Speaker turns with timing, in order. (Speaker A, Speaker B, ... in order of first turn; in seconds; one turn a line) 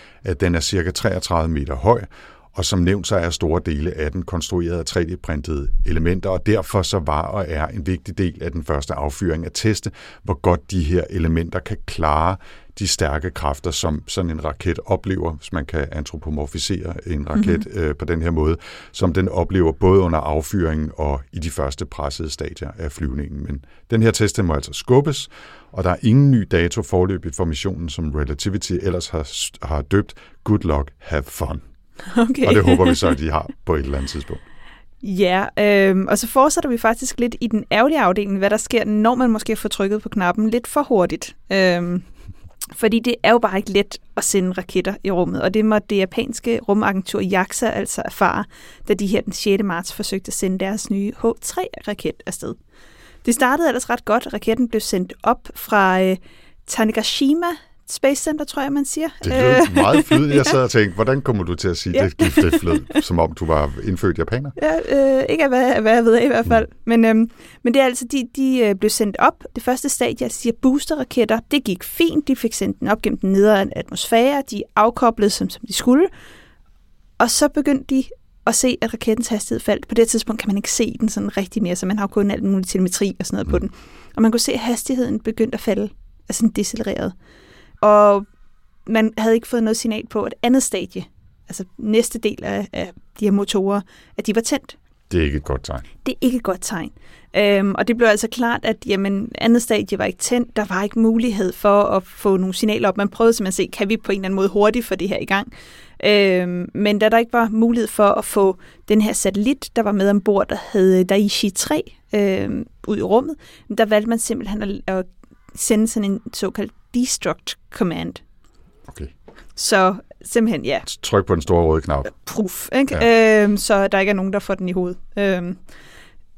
Speaker A: 0.2-31.6
Speaker B: 17.3-17.6
Speaker B: 32.0-33.1
Speaker A: 32.4-34.4
Speaker B: 35.0-42.1
Speaker B: 42.7-52.6
Speaker B: 53.2-60.5
Speaker A: 59.2-64.5
Speaker B: 61.9-63.0
Speaker B: 64.6-76.1
Speaker B: 77.2-87.1
Speaker B: 87.8-88.3
Speaker B: 88.8-94.8
Speaker A: 95.1-95.9
Speaker B: 96.0-118.2
Speaker A: 118.9-119.1
Speaker B: 119.5-120.8
Speaker A: 120.8-122.1
Speaker B: 122.1-125.6